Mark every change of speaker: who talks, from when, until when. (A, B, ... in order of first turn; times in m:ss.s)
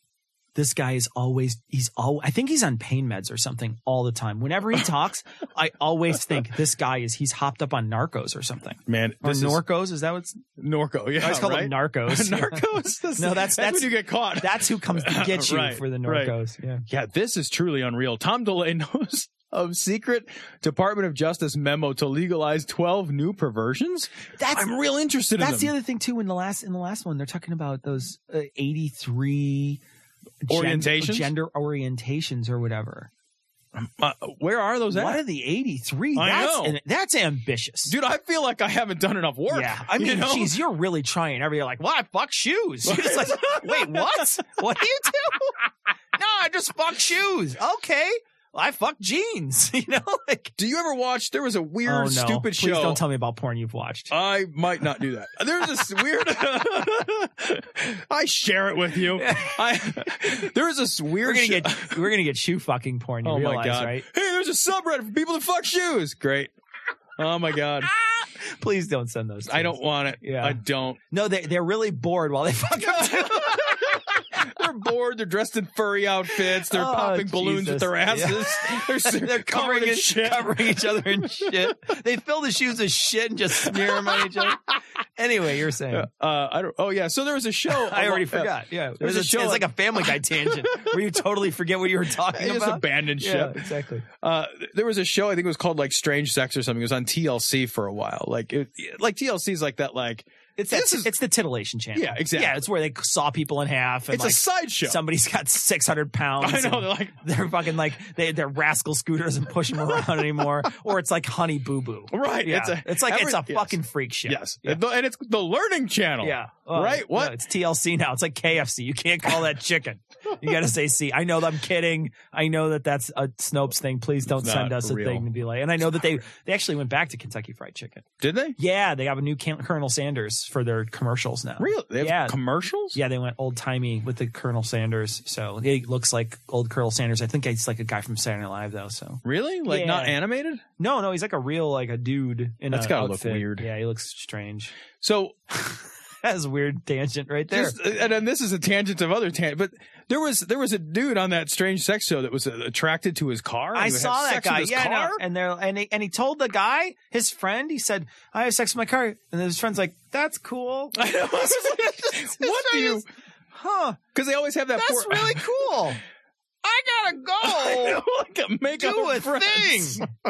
0:00.6-0:10.4 A
0:08.9-0:09.6 B
0:10.6-0:16.4 B
0:11.2-0:12.6 A
0:13.2-0:16.8 A
0:16.9-0:25.7 B
0:24.4-0:24.7 A
0:25.4-0:29.8 A
0:30.4-0:33.1 A
0:30.5-0:31.3 B
0:33.8-0:35.2 B
0:34.9-0:38.0 A
0:36.2-0:36.8 B
0:37.9-0:40.6 B
0:39.5-0:45.6 A
0:42.8-0:44.3 B
0:46.2-0:50.5 A
0:50.6-0:53.0 B
0:51.8-0:54.1 A
0:54.1-1:02.1 B
0:59.2-1:00.4 A
1:01.2-1:04.0 A
1:03.2-1:06.5 B
1:07.2-1:07.9 B
1:08.2-1:10.6 A
1:09.5-1:11.0 B
1:11.1-1:14.0 A
1:12.8-1:21.1 B
1:16.7-1:24.6 A
1:23.7-1:24.6 B
1:25.2-1:26.1 A
1:25.9-1:30.9 B
1:27.7-1:34.0 A
1:32.3-1:33.6 B
1:34.2-1:41.1 B
1:40.6-1:54.8 A
1:42.0-1:42.6 B
1:44.1-1:45.0 B
1:46.4-1:47.2 B
1:52.1-1:57.4 B
1:56.2-2:08.0 A
2:04.3-2:05.3 B
2:08.2-2:08.6 B
2:08.6-2:12.4 A
2:11.6-2:13.0 B
2:12.9-2:20.2 A
2:19.2-2:20.6 B
2:20.8-2:24.7 A
2:22.7-2:23.7 B
2:25.0-2:25.4 B
2:25.6-2:27.8 A
2:27.5-2:35.2 B
2:33.8-2:43.0 A
2:41.0-2:43.1 B
2:43.6-2:44.0 A
2:44.1-2:45.4 B
2:44.8-2:46.0 A
2:46.6-2:48.0 A
2:47.4-2:50.1 B
2:48.8-2:50.0 A